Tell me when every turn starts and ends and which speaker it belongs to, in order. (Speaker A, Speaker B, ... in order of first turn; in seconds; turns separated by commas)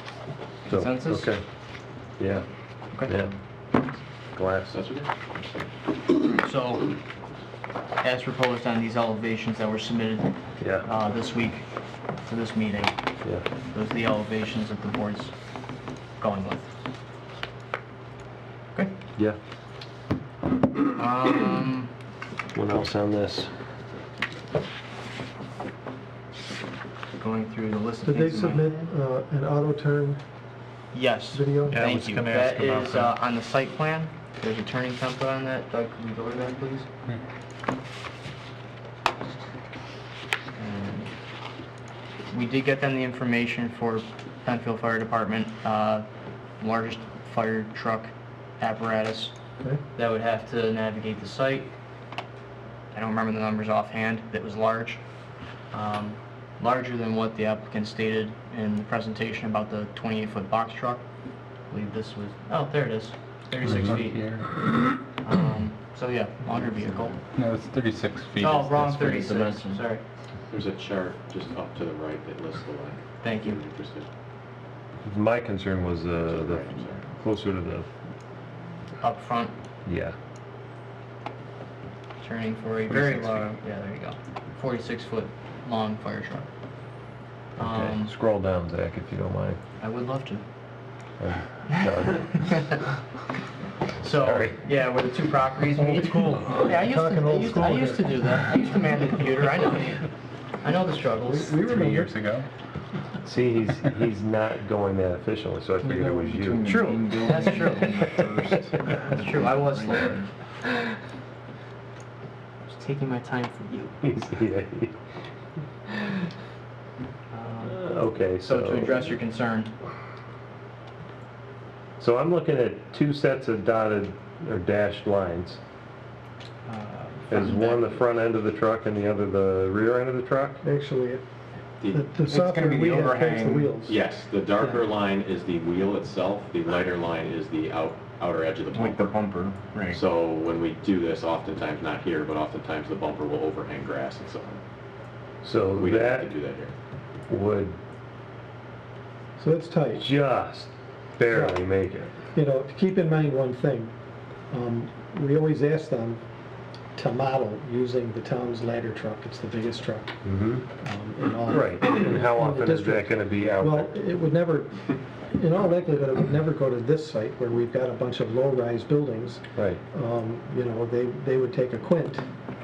Speaker A: 0.7-1.3, Speaker B: 0.7-1.4, Speaker B: 2.2-2.5, Speaker B: 3.0-3.3, Speaker B: 4.3-4.8, Speaker C: 4.7-5.1, Speaker A: 6.4-7.0, Speaker A: 8.0-11.6, Speaker B: 10.6-10.9, Speaker A: 12.2-12.9, Speaker A: 13.7-15.3, Speaker A: 16.2-16.7, Speaker A: 20.9-21.9, Speaker B: 22.5-23.5, Speaker A: 27.1-28.9, Speaker D: 28.0-30.2, Speaker A: 30.9-36.9, Speaker D: 31.3-31.9, Speaker B: 31.7-33.1, Speaker A: 40.6-41.1, Speaker A: 42.3-46.1, Speaker A: 46.6-49.3, Speaker A: 50.0-51.7, Speaker A: 52.9-55.0, Speaker A: 55.7-61.0, Speaker A: 61.7-64.3, Speaker E: 63.6-64.5, Speaker A: 65.2-67.2, Speaker E: 67.4-69.8, Speaker A: 68.4-70.0, Speaker C: 70.5-74.1, Speaker A: 73.2-73.6, Speaker B: 75.0-77.9, Speaker C: 76.2-77.0, Speaker A: 79.0-79.5, Speaker B: 79.8-80.2, Speaker A: 82.2-86.5, Speaker B: 82.9-83.5, Speaker A: 87.6-88.1, Speaker B: 87.6-89.6, Speaker A: 89.8-90.4, Speaker B: 91.2-92.8, Speaker A: 91.7-92.8, Speaker A: 94.0-100.1, Speaker B: 94.1-94.6, Speaker D: 95.8-98.2, Speaker A: 100.6-101.8, Speaker D: 101.3-102.1, Speaker E: 101.5-102.5, Speaker B: 103.2-106.7, Speaker E: 105.8-110.2, Speaker A: 106.6-108.1, Speaker A: 108.9-110.3, Speaker A: 112.7-114.0, Speaker B: 114.0-115.0, Speaker A: 117.3-117.8, Speaker B: 117.7-119.1, Speaker A: 118.4-119.7, Speaker B: 122.0-125.6, Speaker A: 126.7-128.0, Speaker B: 127.3-130.6, Speaker D: 130.6-131.2, Speaker C: 131.8-132.1, Speaker D: 131.9-134.0, Speaker E: 132.3-133.8, Speaker C: 133.9-139.1, Speaker E: 138.7-140.0, Speaker C: 139.9-144.6, Speaker B: 145.4-146.3, Speaker C: 145.8-146.7, Speaker B: 147.3-147.8, Speaker D: 149.4-150.1, Speaker B: 150.0-152.2, Speaker D: 151.3-151.6, Speaker D: 152.3-153.9, Speaker D: 154.5-156.2, Speaker D: 157.0-160.2, Speaker B: 160.2-160.7, Speaker D: 160.8-172.2, Speaker B: 161.5-163.9, Speaker B: 169.6-169.8